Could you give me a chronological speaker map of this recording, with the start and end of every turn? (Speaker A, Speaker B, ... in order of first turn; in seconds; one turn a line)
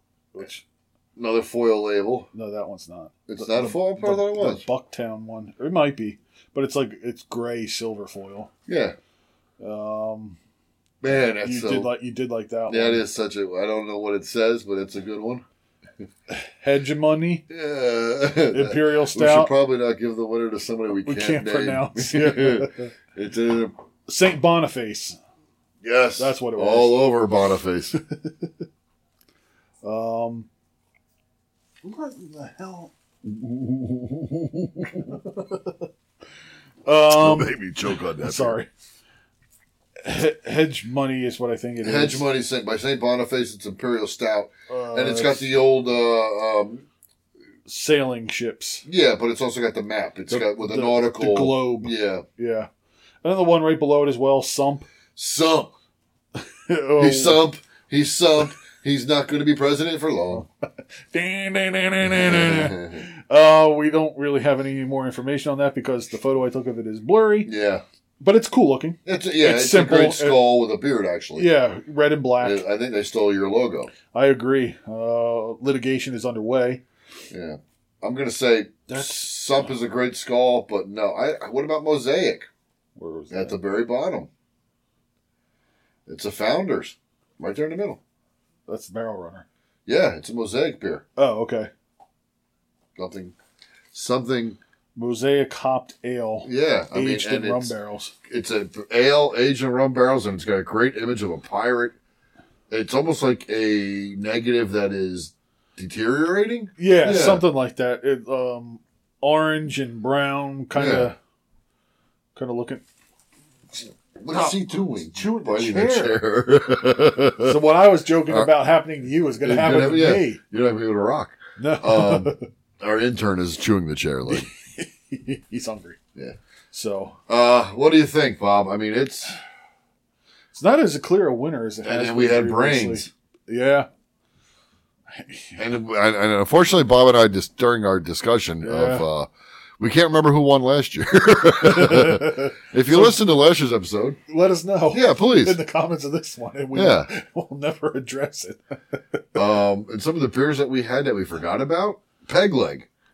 Speaker A: 0.3-0.6
Speaker B: 1.2-2.3
Speaker A: 2.3-8.5
Speaker B: 3.3-4.6
Speaker B: 8.7-9.0
Speaker A: 9.6-10.4
Speaker B: 11.0-11.9
Speaker A: 11.4-13.0
Speaker B: 12.7-15.4
Speaker A: 16.3-17.5
Speaker B: 17.5-23.7
Speaker A: 18.5-19.5
Speaker A: 21.0-22.9
Speaker A: 24.1-25.2
Speaker B: 25.8-28.0
Speaker A: 26.2-27.0
Speaker A: 28.1-28.5
Speaker A: 29.8-30.5
Speaker A: 31.8-32.9
Speaker B: 33.3-34.9
Speaker A: 35.4-35.7
Speaker A: 36.9-37.6
Speaker B: 37.1-38.6
Speaker A: 38.2-38.7
Speaker A: 40.0-42.3
Speaker B: 41.8-46.8
Speaker A: 44.7-45.5
Speaker A: 47.7-48.9
Speaker B: 48.9-52.2
Speaker A: 50.3-52.7
Speaker A: 53.2-54.9
Speaker B: 55.2-55.7
Speaker A: 56.7-57.4
Speaker B: 57.0-60.5
Speaker A: 61.1-67.5
Speaker B: 62.0-63.0
Speaker B: 67.5-67.8
Speaker A: 68.2-70.4
Speaker B: 69.1-71.5
Speaker A: 71.4-72.7
Speaker B: 72.4-73.9
Speaker A: 74.1-76.8
Speaker B: 77.3-82.5
Speaker A: 78.9-79.7
Speaker A: 83.0-83.6
Speaker B: 83.3-84.3
Speaker B: 86.1-88.0
Speaker A: 88.7-89.5
Speaker B: 89.9-91.0
Speaker A: 91.2-91.7
Speaker B: 93.0-93.3
Speaker B: 93.9-94.6
Speaker A: 95.0-98.2
Speaker B: 96.4-97.8
Speaker B: 98.3-102.0
Speaker B: 102.7-107.5
Speaker A: 106.8-111.2
Speaker B: 110.8-111.1
Speaker A: 112.4-112.8
Speaker B: 114.2-117.6
Speaker A: 115.1-116.2
Speaker A: 117.4-120.4
Speaker B: 118.3-118.5
Speaker B: 119.4-124.5
Speaker A: 121.6-122.5
Speaker A: 124.3-126.0
Speaker A: 126.7-127.2
Speaker B: 127.3-129.4
Speaker A: 130.5-133.9
Speaker B: 131.8-133.1
Speaker A: 135.2-135.6
Speaker B: 135.6-139.3
Speaker A: 138.6-139.1
Speaker B: 139.8-144.2
Speaker A: 141.6-143.2
Speaker A: 144.3-149.2
Speaker B: 144.9-145.6
Speaker B: 146.7-147.1
Speaker B: 149.3-152.9